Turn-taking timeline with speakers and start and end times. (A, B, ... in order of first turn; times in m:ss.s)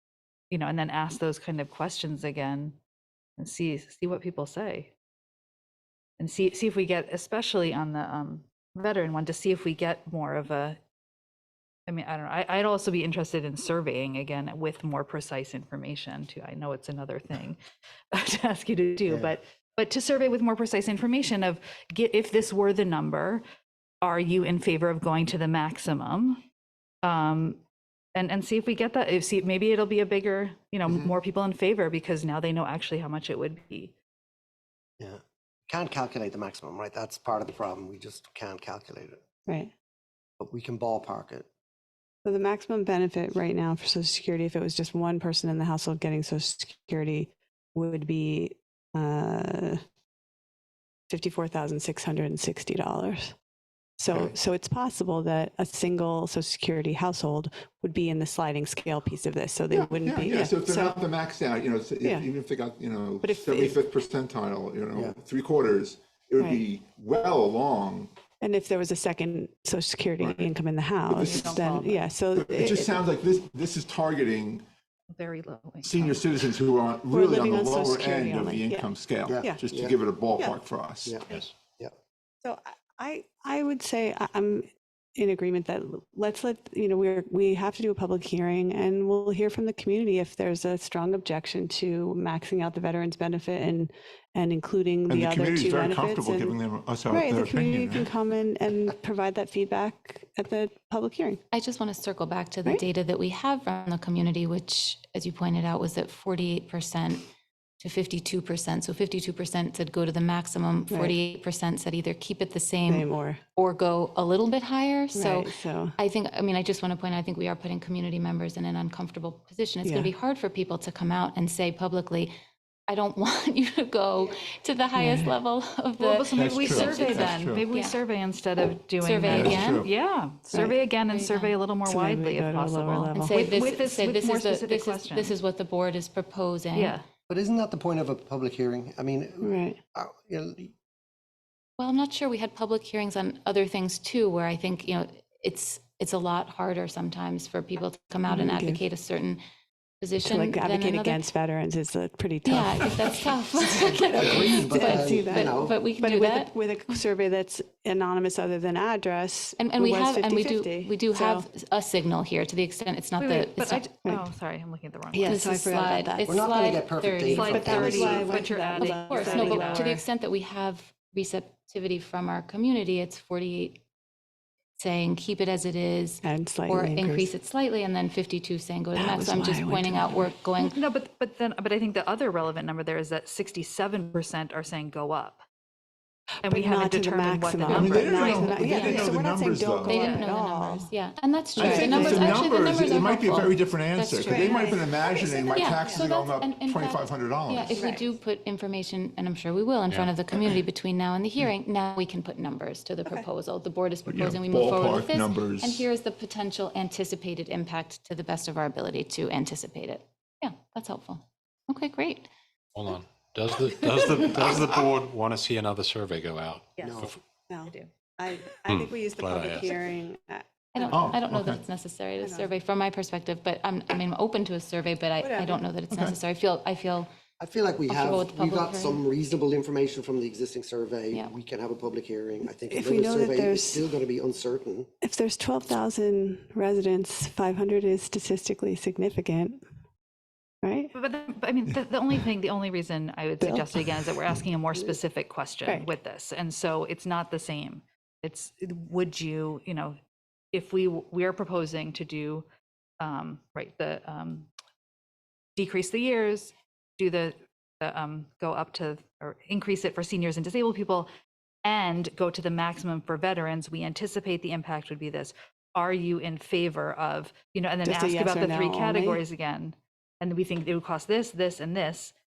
0:00.5-0:02.8 A
0:03.4-0:04.9 A
0:06.2-0:10.8 A
0:11.9-0:17.6 A
0:18.1-0:23.4 A
0:19.1-0:19.4 B
0:24.0-0:26.4 A
0:27.0-0:27.6 A
0:28.2-0:34.0 A
0:35.0-0:39.2 B
0:39.5-0:39.7 C
0:40.4-0:41.5 B
0:42.2-0:49.8 C
0:51.1-0:53.4 C
0:54.0-1:01.0 C
0:59.7-1:08.1 D
1:03.2-1:03.8 C
1:08.4-1:13.0 C
1:10.2-1:10.5 D
1:11.1-1:11.6 D
1:11.2-1:12.1 A
1:12.4-1:14.6 D
1:15.1-1:16.2 A
1:15.8-1:21.4 D
1:17.1-1:19.6 C
1:19.2-1:20.0 B
1:21.0-1:21.9 B
1:22.4-1:36.6 C
1:35.1-1:38.1 D
1:37.1-1:41.4 C
1:41.5-1:47.3 E
1:47.8-2:02.3 E
1:50.9-1:51.2 C
1:52.9-1:53.4 C
1:55.1-1:56.0 C
1:59.8-2:00.1 C
2:02.9-2:08.0 E
2:05.0-2:05.4 C
2:06.0-2:15.3 A
2:06.4-2:07.7 D
2:09.0-2:09.9 E
2:09.3-2:09.9 D
2:11.1-2:11.6 E
2:11.9-2:13.4 C
2:13.1-2:17.0 E
2:16.8-2:17.0 A
2:17.3-2:20.7 B
2:19.4-2:19.8 C
2:21.8-2:29.4 E
2:28.3-2:28.8 C
2:30.0-2:31.3 E
2:30.2-2:33.3 C
2:32.4-2:36.5 E
2:33.7-2:35.8 B
2:34.2-2:34.5 D
2:34.4-2:41.5 C
2:39.6-2:43.9 E
2:43.2-2:45.5 A
2:45.1-2:46.4 C
2:45.2-2:47.9 E
2:46.3-2:48.5 B
2:47.3-2:50.0 A
2:47.4-2:50.0 C
2:48.7-2:53.8 E
2:54.8-3:00.8 E
2:56.2-2:57.3 C
2:59.0-3:00.3 C
3:00.6-3:05.4 A
3:06.4-3:08.9 A
3:06.4-3:10.9 C
3:07.7-3:09.9 D
3:08.4-3:09.1 E
3:09.9-3:14.8 E
3:09.9-3:10.3 A
3:11.6-3:17.8 D
3:11.6-3:12.4 C
3:14.3-3:16.1 C
3:15.5-3:32.3 E
3:17.8-3:18.1 C
3:19.9-3:20.2 F
3:24.0-3:25.9 D
3:32.8-3:37.2 F
3:36.8-3:37.1 A
3:36.8-3:37.1 B
3:37.5-3:41.2 C
3:37.7-3:37.9 A
3:38.7-3:39.7 F
3:40.7-3:47.1 E
3:40.9-3:41.6 D
3:42.2-3:42.5 C
3:45.2-3:45.7 C
3:45.9-3:46.2 D
3:47.4-3:54.9 B
3:47.9-3:49.0 E
3:52.7-3:53.8 C
3:55.0-3:59.6 C
4:00.6-4:00.9 C
4:00.9-4:10.0 A
4:03.4-4:03.7 C
4:10.5-4:12.5 A
4:13.0-4:14.5 A
4:15.6-4:21.1 A
4:21.6-4:32.1 A
4:27.8-4:29.2 C